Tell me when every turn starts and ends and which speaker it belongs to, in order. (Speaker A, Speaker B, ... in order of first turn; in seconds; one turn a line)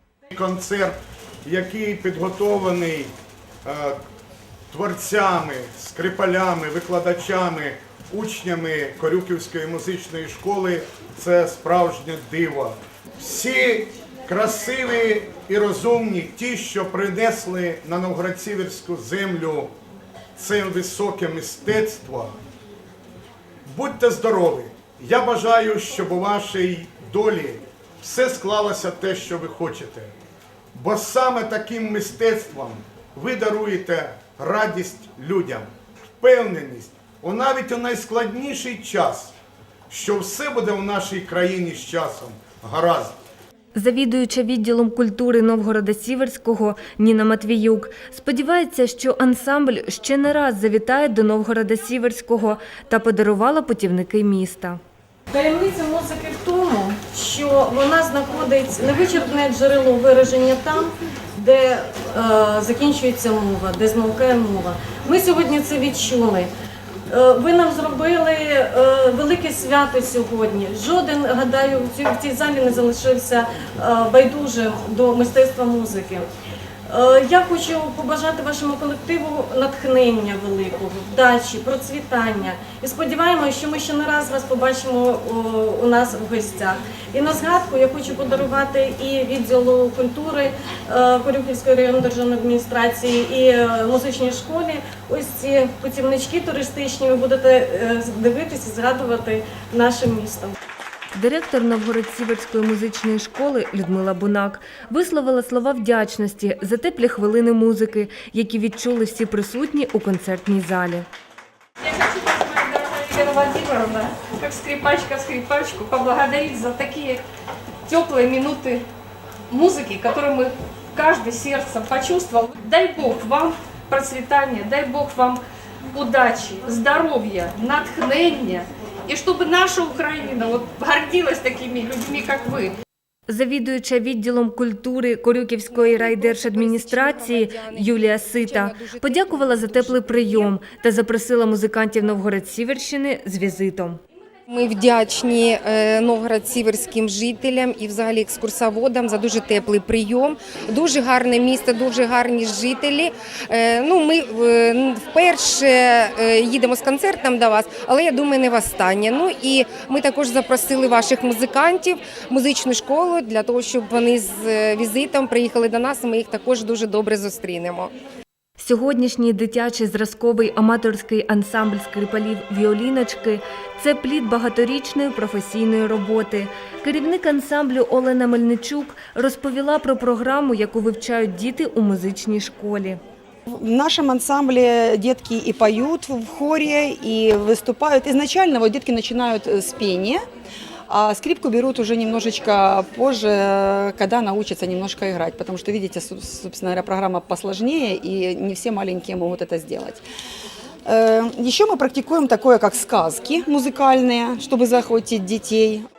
Speaker A: 0.3-3.1
Speaker A: 3.6-4.0
Speaker A: 4.7-19.7
Speaker A: 20.4-22.4
Speaker A: 23.7-30.1
Speaker A: 30.8-35.7
Speaker A: 36.2-39.4
Speaker A: 39.9-43.1
Speaker B: 43.8-54.8
Speaker C: 55.3-66.5
Speaker C: 67.1-76.3
Speaker C: 76.9-100.5
Speaker B: 101.1-111.1
Speaker D: 111.8-117.2
Speaker D: 117.9-118.8
Speaker D: 119.5-125.4
Speaker D: 125.9-132.7
Speaker B: 133.3-144.0
Speaker E: 135.7-140.5
Speaker E: 144.5-167.9
Speaker B: 168.6-183.0
Speaker F: 183.5-190.2
Speaker F: 190.9-200.0
Speaker F: 200.9-205.8